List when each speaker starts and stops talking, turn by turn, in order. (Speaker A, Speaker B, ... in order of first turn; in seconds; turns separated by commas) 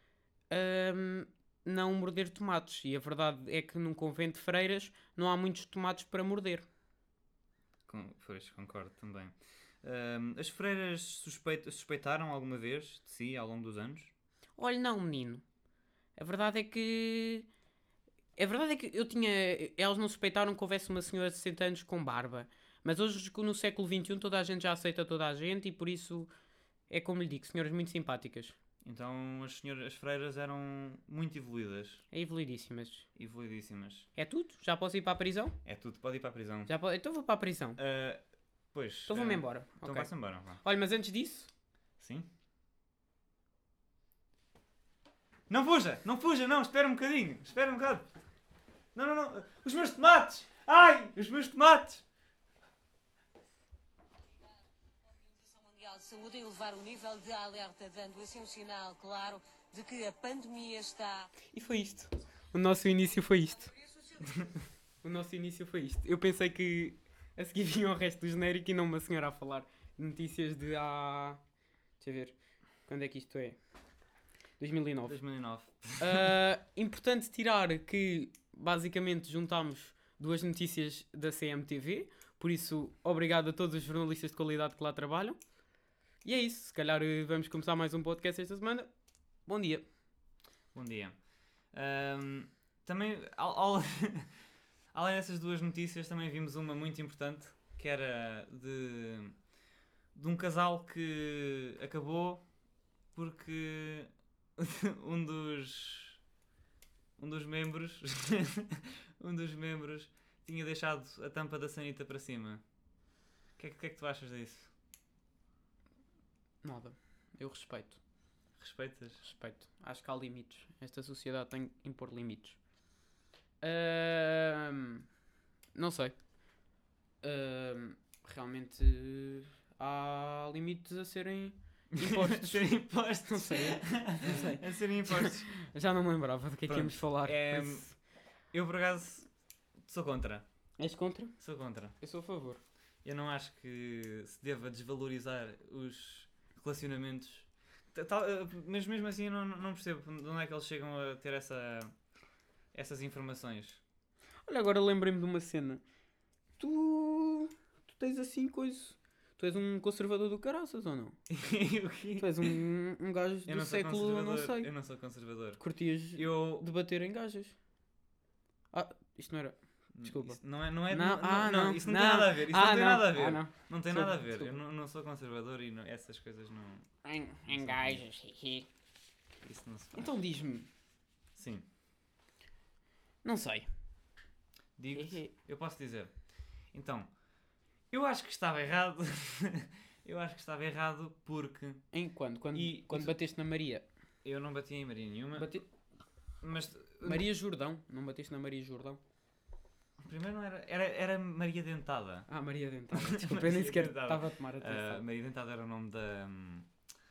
Speaker A: 0.5-6.7, Speaker B: 7.9-14.1, Speaker A: 14.6-15.4, Speaker A: 16.2-17.5, Speaker A: 18.4-26.3, Speaker A: 26.9-28.6, Speaker B: 28.8-32.1, Speaker A: 32.1-33.1, Speaker B: 33.2-34.1, Speaker A: 34.2-35.6, Speaker B: 35.6-36.7, Speaker A: 36.7-37.8, Speaker B: 37.8-38.2, Speaker B: 38.7-40.6, Speaker A: 39.1-41.5, Speaker B: 42.0-42.3, Speaker B: 45.5-48.1, Speaker B: 49.0-52.0, Speaker C: 55.2-61.3, Speaker A: 61.5-63.7, Speaker A: 65.0-71.4, Speaker A: 72.0-73.6, Speaker A: 74.6-75.2, Speaker B: 75.1-76.4, Speaker A: 76.0-85.4, Speaker A: 86.2-88.9, Speaker A: 89.5-89.8, Speaker B: 90.7-91.2, Speaker B: 91.7-94.3, Speaker B: 94.9-99.4, Speaker B: 100.2-102.4, Speaker B: 103.1-106.2, Speaker B: 107.2-112.6, Speaker B: 113.6-114.7, Speaker A: 116.6-118.0, Speaker B: 118.6-119.2, Speaker A: 119.2-122.6, Speaker A: 123.6-125.1, Speaker A: 125.8-126.2, Speaker A: 127.2-137.9, Speaker B: 131.9-135.6, Speaker B: 136.7-137.9, Speaker B: 138.5-139.3, Speaker B: 139.8-140.4, Speaker A: 140.8-141.4, Speaker B: 141.4-142.0, Speaker A: 142.0-142.6, Speaker B: 143.0-151.9, Speaker B: 152.7-153.8, Speaker A: 154.5-155.8, Speaker A: 156.6-161.2, Speaker B: 161.3-162.5, Speaker A: 162.2-164.7, Speaker B: 163.5-165.6, Speaker A: 165.6-167.6, Speaker B: 166.2-166.7, Speaker A: 168.7-174.6, Speaker B: 169.9-176.9, Speaker A: 177.0-178.7, Speaker B: 177.5-178.0, Speaker B: 179.4-180.1, Speaker A: 179.9-180.7, Speaker B: 181.4-181.7, Speaker A: 183.2-183.7, Speaker B: 184.8-186.2, Speaker A: 184.9-185.3, Speaker B: 186.7-187.1, Speaker B: 187.9-191.9, Speaker A: 191.9-193.8, Speaker B: 192.5-193.2, Speaker B: 194.2-195.5, Speaker A: 195.4-195.7, Speaker B: 196.4-197.2, Speaker A: 197.0-199.0, Speaker B: 200.0-202.3, Speaker A: 202.3-205.0, Speaker B: 202.9-206.7